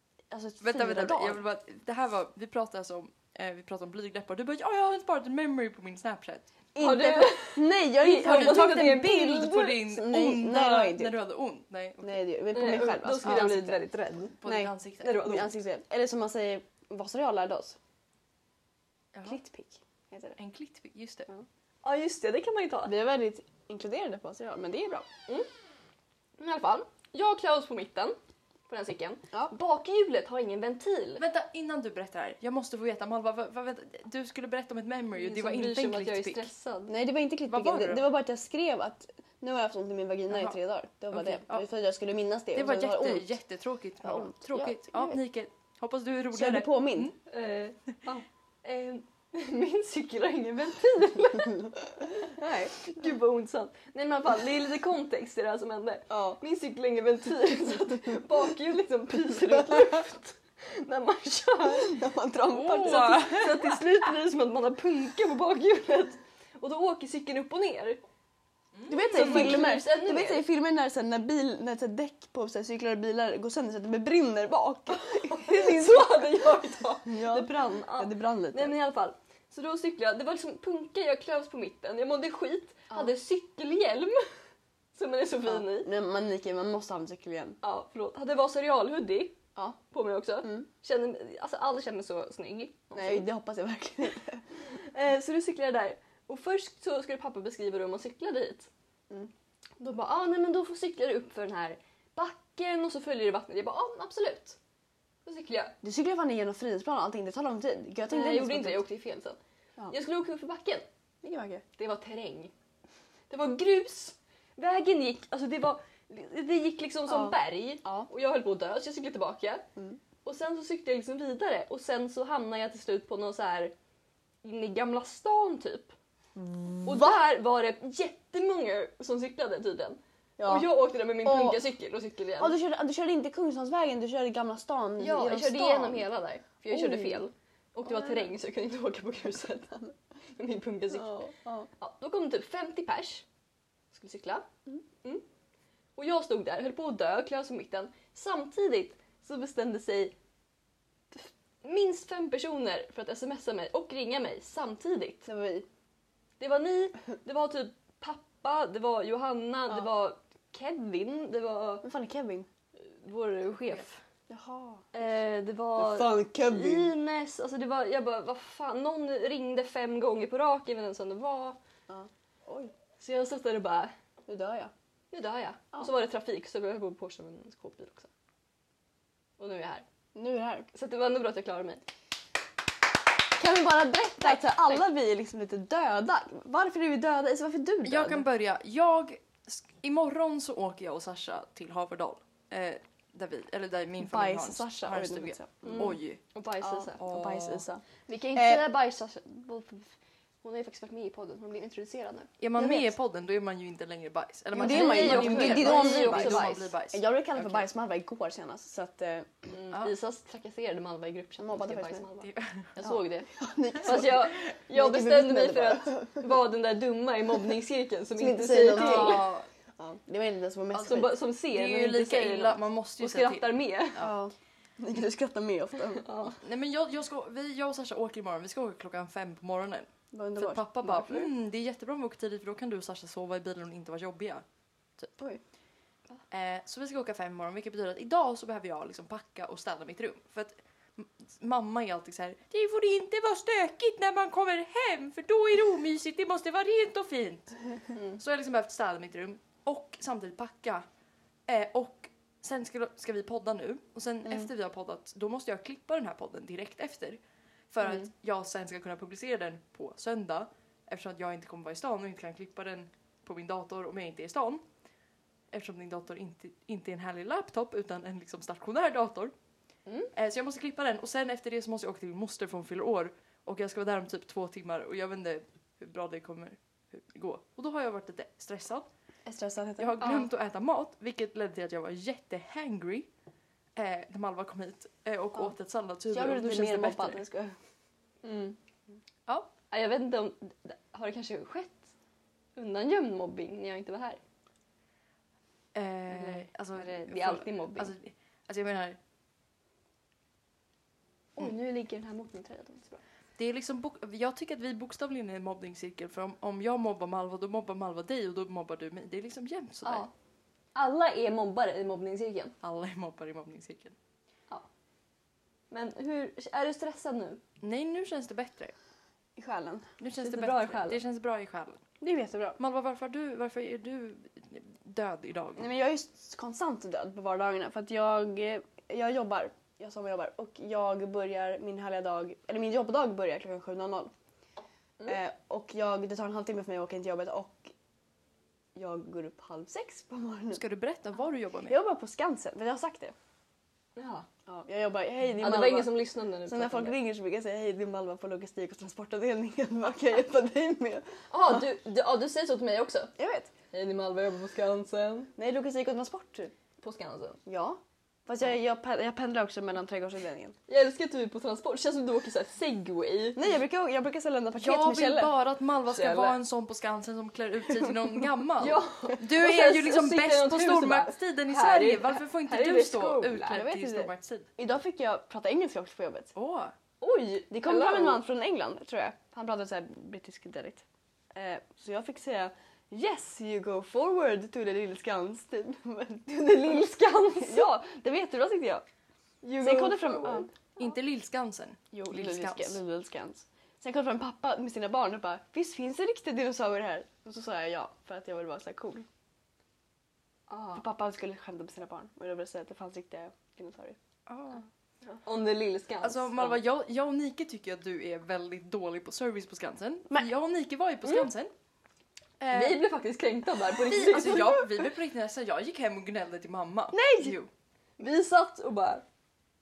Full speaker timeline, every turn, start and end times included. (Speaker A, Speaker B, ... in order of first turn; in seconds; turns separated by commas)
Speaker A: 0.3-1.4, Speaker B: 0.6-6.4, Speaker A: 6.7-11.1, Speaker C: 6.8-9.7, Speaker B: 8.1-12.2, Speaker A: 12.0-13.7, Speaker C: 12.5-14.4, Speaker B: 13.2-13.8, Speaker B: 14.4-15.4, Speaker A: 14.4-17.8, Speaker C: 15.0-15.5, Speaker B: 19.1-19.4, Speaker A: 19.2-20.4, Speaker B: 20.4-21.3, Speaker C: 21.8-22.9, Speaker A: 22.9-25.1, Speaker C: 26.4-28.2, Speaker C: 28.7-31.2, Speaker B: 31.2-36.5, Speaker C: 35.1-36.9, Speaker A: 36.9-43.3, Speaker B: 37.5-38.1, Speaker B: 40.3-40.6, Speaker B: 41.1-41.6, Speaker B: 42.5-47.1, Speaker A: 44.0-44.4, Speaker A: 46.3-47.1, Speaker C: 47.3-51.7, Speaker A: 52.3-52.9, Speaker C: 52.9-62.0, Speaker A: 56.1-56.4, Speaker A: 61.8-63.3, Speaker B: 62.5-63.7, Speaker C: 62.7-68.0, Speaker B: 68.8-69.7, Speaker A: 68.9-76.2, Speaker C: 69.1-70.4, Speaker C: 75.1-84.2, Speaker A: 77.0-78.7, Speaker C: 84.9-85.9, Speaker A: 85.4-87.6, Speaker C: 87.6-93.2, Speaker A: 92.9-94.4, Speaker C: 94.7-98.7, Speaker C: 99.8-104.6, Speaker C: 105.2-105.7, Speaker A: 105.8-108.8, Speaker C: 108.1-109.4, Speaker C: 109.9-110.8, Speaker A: 111.2-111.6, Speaker C: 111.8-112.5, Speaker C: 113.3-119.7, Speaker A: 117.1-118.1, Speaker C: 120.2-123.7, Speaker C: 124.4-125.9, Speaker A: 126.3-127.2, Speaker C: 126.8-132.6, Speaker A: 130.4-131.6, Speaker A: 132.4-136.1, Speaker C: 135.0-141.3, Speaker A: 136.7-137.2, Speaker A: 137.8-138.3, Speaker A: 140.9-141.7, Speaker C: 141.8-143.2, Speaker C: 143.9-144.5, Speaker C: 145.9-150.1, Speaker C: 151.1-155.2, Speaker A: 155.2-155.7, Speaker C: 156.4-161.8, Speaker A: 161.8-162.5, Speaker C: 162.8-163.9, Speaker B: 163.7-164.0, Speaker A: 164.3-164.8, Speaker C: 164.9-171.6, Speaker A: 165.8-166.9, Speaker A: 171.9-172.7, Speaker C: 173.0-173.9, Speaker A: 174.2-174.7, Speaker C: 175.1-178.1, Speaker C: 179.4-179.8, Speaker A: 180.1-180.7, Speaker C: 180.7-181.8, Speaker A: 183.4-188.3, Speaker C: 184.2-184.6, Speaker B: 187.8-196.2, Speaker A: 194.0-195.9, Speaker C: 195.6-197.0, Speaker A: 196.6-198.7, Speaker B: 197.0-197.6, Speaker C: 198.1-202.3, Speaker B: 202.4-207.6, Speaker A: 202.6-202.9, Speaker A: 204.5-209.3, Speaker C: 204.5-206.7, Speaker C: 209.5-213.3, Speaker A: 211.4-212.0, Speaker B: 212.2-212.7, Speaker A: 212.8-216.3, Speaker C: 213.8-219.2, Speaker A: 218.2-221.2, Speaker B: 218.7-219.4, Speaker C: 220.7-224.1, Speaker B: 221.5-224.1, Speaker A: 224.0-226.1, Speaker C: 226.0-226.4, Speaker B: 226.4-234.4, Speaker A: 230.1-231.2, Speaker B: 236.3-250.8, Speaker B: 251.5-264.6, Speaker B: 265.5-269.3, Speaker B: 270.1-278.9, Speaker A: 279.2-280.0, Speaker B: 279.8-283.1, Speaker C: 280.0-280.3, Speaker B: 283.8-287.2, Speaker A: 286.1-287.6, Speaker C: 288.2-288.6, Speaker C: 289.7-291.9, Speaker C: 292.6-294.2, Speaker B: 295.7-299.0, Speaker C: 296.1-297.9, Speaker C: 301.4-303.0, Speaker B: 303.4-310.1, Speaker C: 309.8-310.1, Speaker C: 310.7-312.5, Speaker B: 312.6-313.9, Speaker C: 315.7-317.4, Speaker B: 317.6-318.7, Speaker A: 319.4-319.9, Speaker B: 320.0-321.8, Speaker C: 320.2-321.0, Speaker A: 322.0-322.6, Speaker B: 322.6-325.7, Speaker A: 325.6-334.1, Speaker A: 335.1-337.7, Speaker A: 338.8-340.6, Speaker B: 340.5-341.8, Speaker A: 341.6-343.1, Speaker C: 343.9-344.2, Speaker A: 344.5-351.6, Speaker C: 345.4-346.9, Speaker C: 351.3-353.1, Speaker A: 353.2-353.5, Speaker C: 353.7-355.3, Speaker A: 355.4-356.5, Speaker C: 356.8-357.4, Speaker A: 357.4-360.6, Speaker C: 360.7-363.5, Speaker A: 363.3-365.4, Speaker B: 364.6-374.5, Speaker C: 365.9-366.4, Speaker C: 368.6-373.6, Speaker A: 373.5-376.3, Speaker B: 376.4-376.7, Speaker C: 377.0-378.2, Speaker A: 377.5-386.8, Speaker C: 386.3-387.8, Speaker A: 387.4-388.8, Speaker C: 389.4-390.5, Speaker A: 389.6-390.5, Speaker B: 390.8-392.8, Speaker A: 391.9-399.1, Speaker C: 400.5-400.8, Speaker A: 400.7-404.0, Speaker B: 404.3-404.6, Speaker C: 405.2-406.6, Speaker B: 406.0-411.5, Speaker B: 412.4-412.8, Speaker C: 412.5-414.6, Speaker B: 413.9-417.5, Speaker A: 416.9-417.4, Speaker C: 418.0-419.0